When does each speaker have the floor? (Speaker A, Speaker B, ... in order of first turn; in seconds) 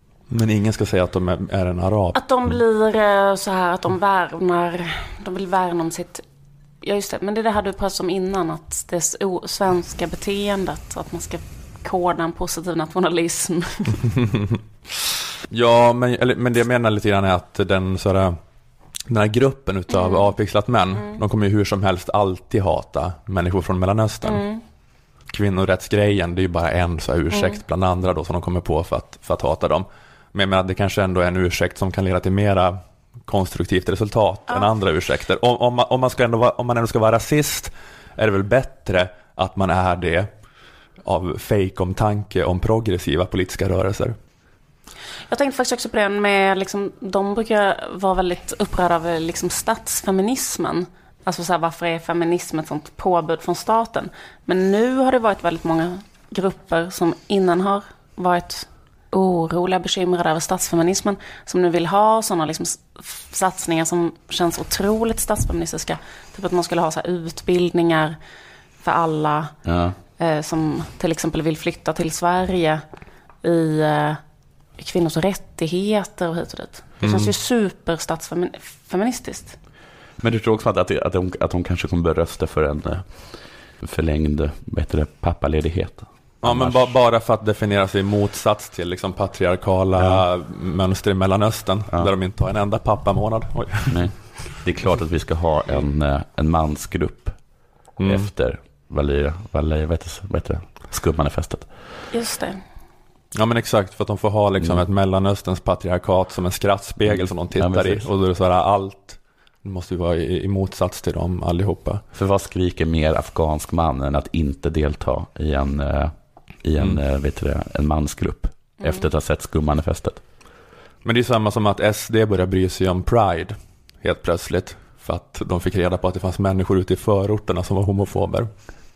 Speaker A: 0.3-2.2, 15.5-18.4, 19.1-24.4, 25.3-40.3, 41.0-44.1, 77.0-77.3, 86.4-94.2, 98.0-98.3, 103.3-112.0, 121.0-128.5
Speaker B: 2.1-6.2, 6.8-14.1, 19.9-20.3, 24.2-24.6, 27.3-27.6, 45.3-68.2, 68.8-69.5, 70.2-72.8, 73.4-74.2, 74.8-79.6, 102.1-102.6, 118.8-119.1
Speaker C: 69.6-70.0, 80.2-86.8, 90.0-90.2, 93.9-97.4, 98.0-101.7, 107.1-108.0, 112.1-120.2